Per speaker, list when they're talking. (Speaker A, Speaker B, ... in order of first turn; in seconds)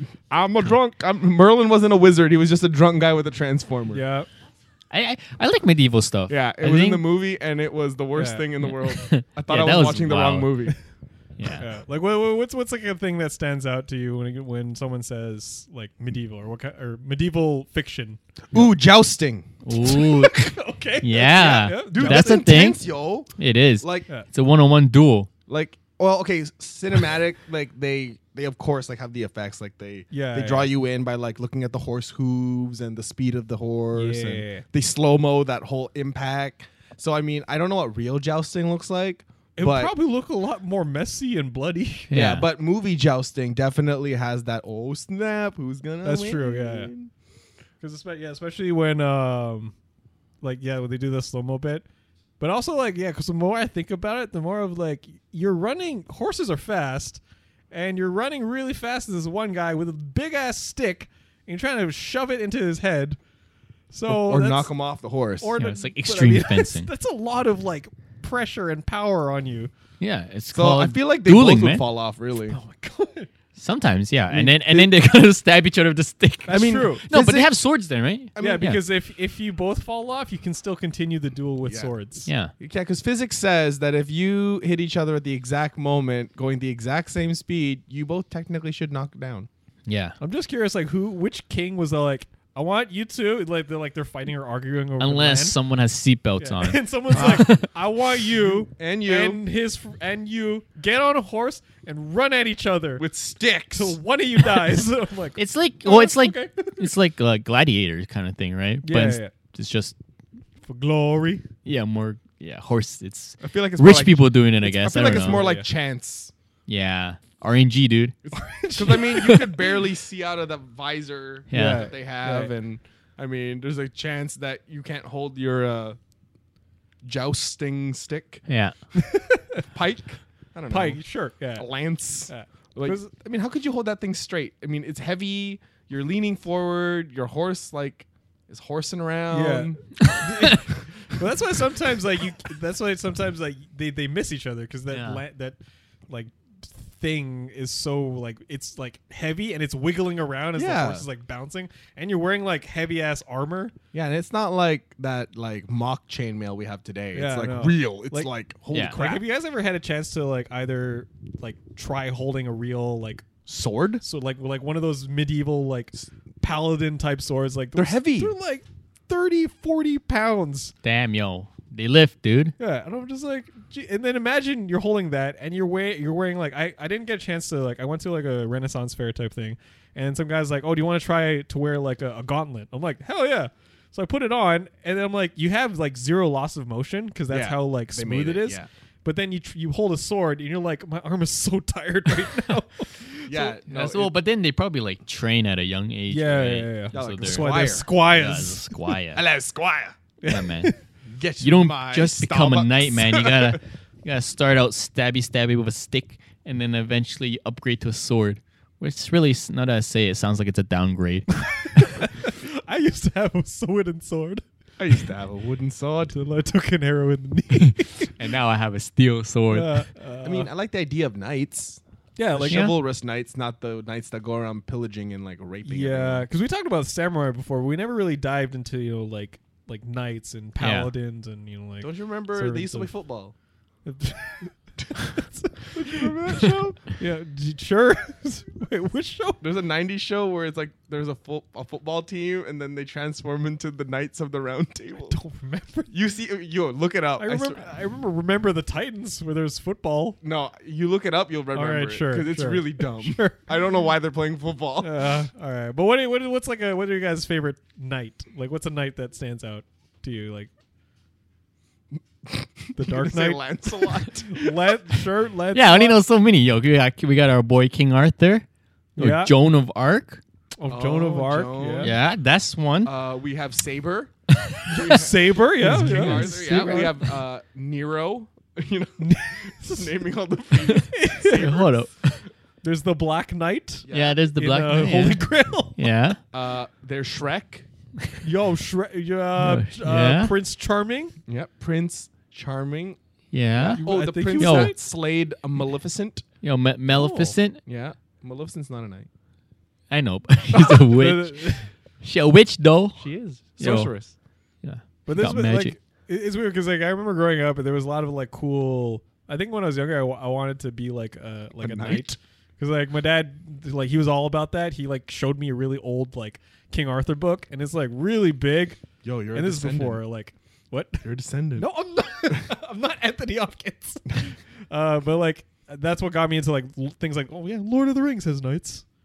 Speaker A: 0.3-4.0, 6.3-10.8, 18.5-19.5, 21.9-24.1, 25.5-39.9, 42.1-47.1, 64.1-65.5, 70.5-72.6, 76.5-77.5, 78.3-78.7, 81.6-81.9, 82.6-89.5, 98.7-99.4, 103.0-104.0, 113.4-116.3, 118.2-126.0, 127.0-128.4, 129.7-131.0, 131.6-139.8, 150.6-151.0, 153.9-159.2, 163.4-164.0, 167.8-168.3, 187.3-188.7, 193.3-194.1, 196.9-197.9, 199.1-200.0, 201.1-203.6, 214.8-216.2, 220.2-221.8, 222.3-226.3, 231.8-233.3, 235.7-236.8, 239.4-245.2, 245.9-247.7, 250.2-255.1, 262.2-264.8, 270.7-272.0, 272.8-274.1, 274.7-281.7, 283.9-284.2, 286.3-287.7, 291.3-293.0, 293.5-296.2, 297.6-299.1, 300.5-301.0, 302.9-304.1, 311.6-312.2, 319.0-320.0, 321.0-321.7
Speaker B: 3.9-4.3, 8.2-8.5, 11.6-18.7, 19.8-22.6, 30.1-30.7, 33.9-34.6, 39.6-42.1, 46.0-46.9, 47.8-49.7, 50.4-51.8, 52.4-63.2, 63.9-64.7, 65.4-69.7, 72.5-73.3, 74.3-74.8, 76.5-77.0, 78.4-82.3, 90.2-95.5, 96.4-103.0, 103.7-106.9, 108.8-109.3, 110.7-111.4, 114.8-115.7, 118.3-119.5, 121.5-122.5, 128.9-129.6, 130.7-131.7, 132.3-133.1, 139.3-145.6, 146.1-153.7, 157.1-163.3, 164.0-170.7, 172.6-193.6, 196.1-198.7, 200.2-200.8, 211.6-214.4, 216.1-218.1, 219.5-220.5, 222.2-222.7, 225.6-232.9, 233.8-236.4, 237.0-239.4, 245.1-245.9, 247.2-250.2, 251.5-253.5, 254.8-260.5, 262.8-266.0, 269.0-269.3, 270.6-271.9, 274.7-276.9, 279.0-279.9, 280.9-281.6, 282.6-285.8, 288.2-291.1, 293.7-294.8, 296.9-297.4, 300.9-301.7, 305.1-318.8, 319.3-328.8
Speaker C: 4.9-7.0, 8.6-10.7, 11.4-11.7, 19.6-22.8, 23.4-25.3, 42.1-42.5, 65.6-66.9, 70.0-71.8, 73.5-78.8, 82.3-82.5, 89.9-90.2, 95.0-97.7, 105.3-110.0, 111.6-115.4, 116.7-118.1, 121.5-121.9, 128.5-128.7, 140.0-140.5, 144.9-145.2, 170.8-172.5, 193.7-199.2, 200.3-200.7, 201.4-211.8, 217.6-219.8, 222.5-222.7, 230.6-230.9, 265.5-268.4, 269.0-270.2, 271.8-272.9, 274.3-275.0, 275.6-277.0, 281.2-282.2, 283.9-285.2, 285.8-286.2, 289.4-290.3, 293.3-293.8, 294.4-294.7, 296.4-297.6, 299.9-303.9, 304.6-305.8